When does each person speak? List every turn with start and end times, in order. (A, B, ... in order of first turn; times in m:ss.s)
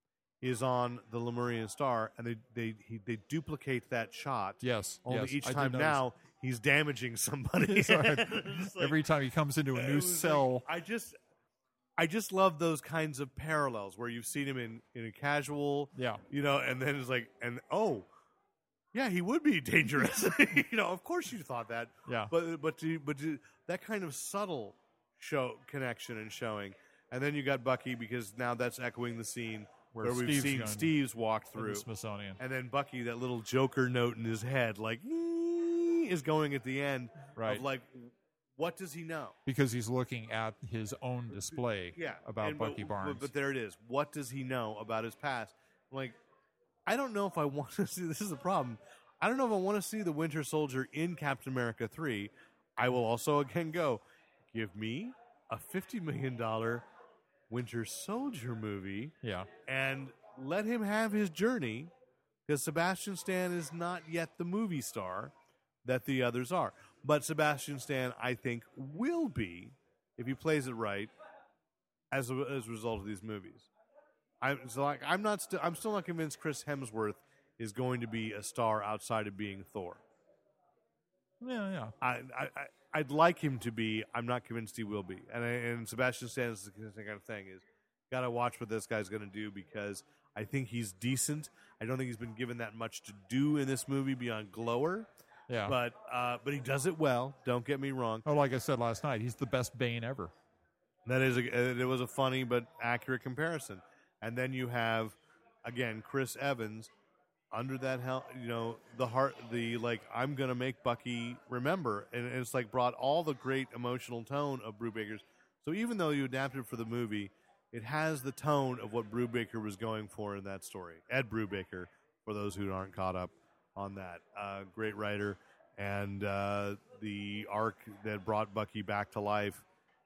0:00.4-0:09.0 A
0:04.6-0:06.0 B
0:07.6-0:10.7 B
0:09.7-0:11.2 A
0:12.0-0:18.1 A
0:16.0-0:16.2 B
0:18.9-0:31.9 A
0:22.1-0:22.3 B
0:29.9-0:30.9 B
0:31.6-0:32.4 B
0:32.4-0:39.4 A
0:37.4-0:37.6 B
0:39.4-0:43.3 B
0:42.0-0:46.2 A
0:46.9-0:54.0 A
0:54.5-0:56.8 A
0:57.5-0:59.1 A
0:59.2-0:59.5 B
0:59.7-1:01.9 A
1:02.4-1:05.3 A
1:05.8-1:11.1 A
1:12.1-1:13.7 A
1:14.4-1:20.0 A
1:21.4-1:21.9 B
1:22.0-1:35.1 A
1:35.5-1:35.8 B
1:35.7-1:38.2 A
1:38.2-1:40.3 B
1:41.1-1:46.9 A
1:47.5-2:09.6 A